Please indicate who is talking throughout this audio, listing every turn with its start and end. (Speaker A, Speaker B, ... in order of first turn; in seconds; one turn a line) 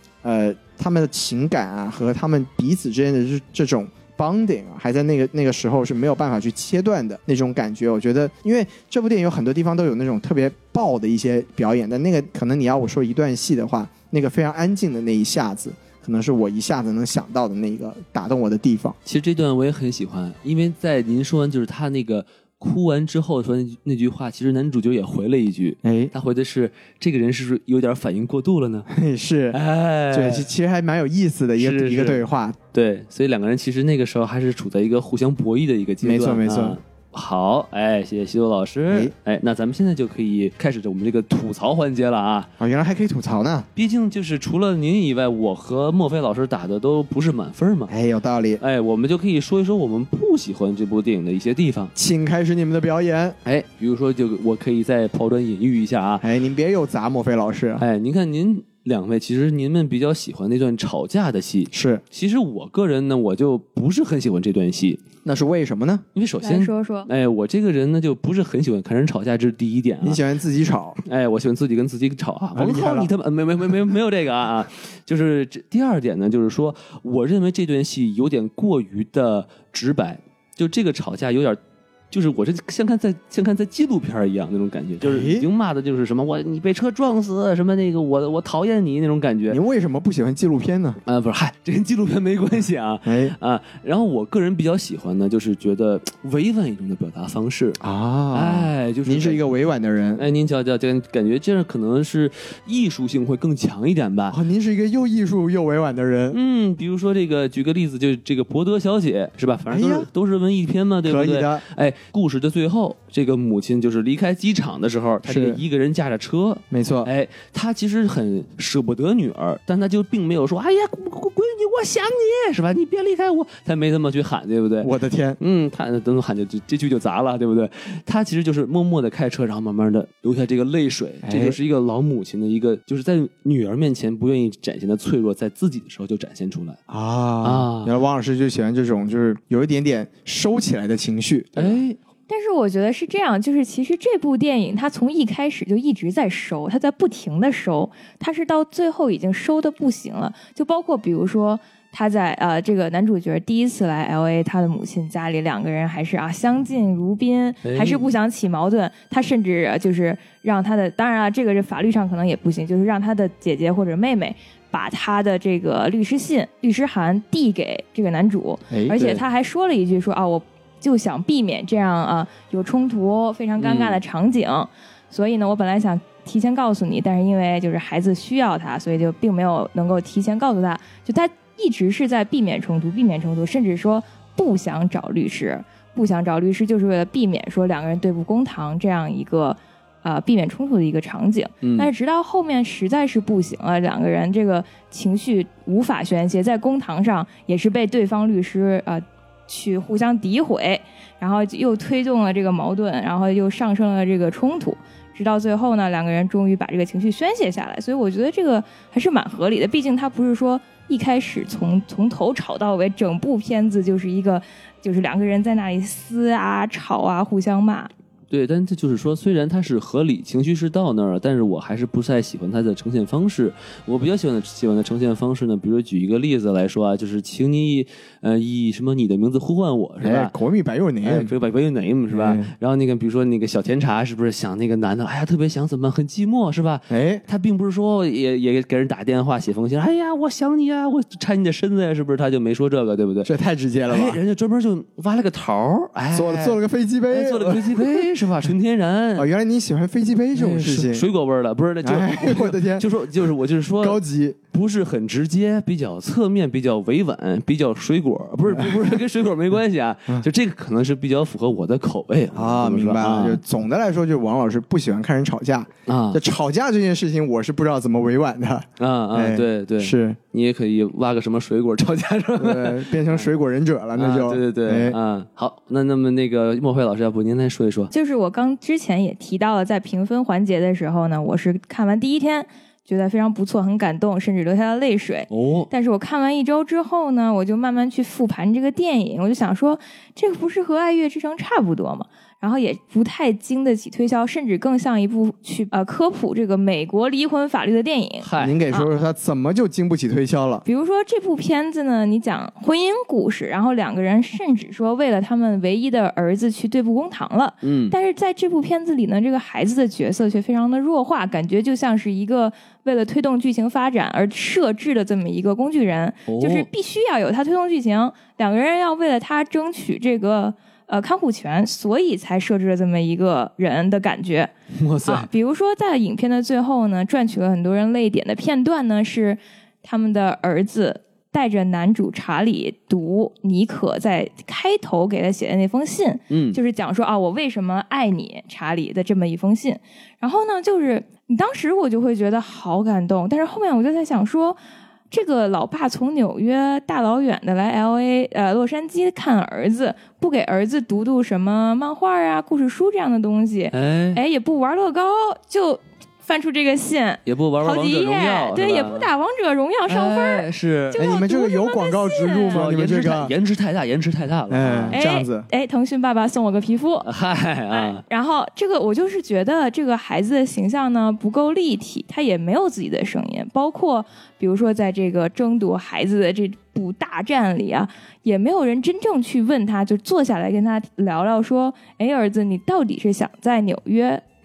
Speaker A: 0.2-18.9
Speaker B: 19.1-28.9
Speaker A: 25.8-26.1
Speaker A: 28.9-29.6
Speaker B: 29.5-30.5
Speaker A: 30.1-32.6
Speaker B: 31.6-42.5
Speaker A: 36.0-36.8
Speaker A: 42.6-43.7
Speaker B: 43.7-47.9
Speaker A: 47.9-48.6
Speaker B: 48.6-51.9
Speaker A: 51.9-53.4
Speaker B: 53.4-56.2
Speaker A: 56.2-57.8
Speaker B: 57.8-65.0
Speaker A: 61.7-62.0
Speaker A: 65.2-66.0
Speaker B: 66.1-70.2
Speaker C: 66.4-67.1
Speaker A: 70.0-71.0
Speaker B: 71.0-81.6
Speaker A: 72.5-73.1
Speaker B: 82.1-89.6
Speaker A: 85.0-85.5
Speaker A: 89.5-91.0
Speaker B: 91.0-97.8
Speaker A: 93.0-93.3
Speaker A: 97.8-100.2
Speaker B: 98.3-99.4
Speaker B: 100.2-104.4
Speaker A: 104.3-106.4
Speaker B: 106.3-136.8
Speaker A: 109.7-110.1
Speaker A: 111.0-111.6
Speaker A: 115.2-115.6
Speaker A: 116.7-117.1
Speaker A: 124.8-125.4
Speaker A: 131.2-131.6
Speaker A: 136.9-141.8
Speaker B: 137.4-137.9
Speaker B: 141.6-142.0
Speaker C: 142.3-217.9
Speaker B: 157.6-158.1
Speaker A: 168.7-169.0
Speaker B: 168.9-169.2
Speaker B: 173.6-174.0
Speaker B: 191.6-191.9
Speaker B: 218.3-230.3
Speaker A: 230.0-231.3
Speaker B: 231.0-243.3
Speaker A: 232.1-232.5
Speaker A: 236.9-237.2
Speaker A: 243.2-244.2
Speaker B: 243.9-249.3
Speaker A: 246.1-248.0
Speaker A: 249.2-251.1
Speaker B: 250.3-254.0
Speaker A: 251.8-253.2
Speaker A: 253.8-254.4
Speaker B: 254.5-263.4
Speaker A: 262.3-270.2
Speaker B: 265.9-266.2
Speaker B: 268.8-273.3
Speaker A: 272.4-275.0
Speaker B: 273.9-277.9
Speaker C: 277.9-298.9
Speaker B: 285.3-285.7
Speaker B: 298.2-298.6
Speaker A: 298.4-300.6
Speaker C: 300.6-324.5
Speaker B: 307.6-307.9
Speaker B: 316.3-316.7
Speaker B: 324.7-325.3
Speaker C: 325.1-344.6
Speaker B: 336.3-336.6
Speaker C: 345.1-362.6
Speaker B: 353.7-354.2
Speaker B: 357.2-359.1
Speaker B: 359.9-361.1
Speaker A: 360.9-363.3
Speaker B: 362.5-365.0
Speaker A: 364.5-365.5
Speaker C: 364.9-367.1
Speaker B: 367.0-368.0
Speaker C: 367.7-384.2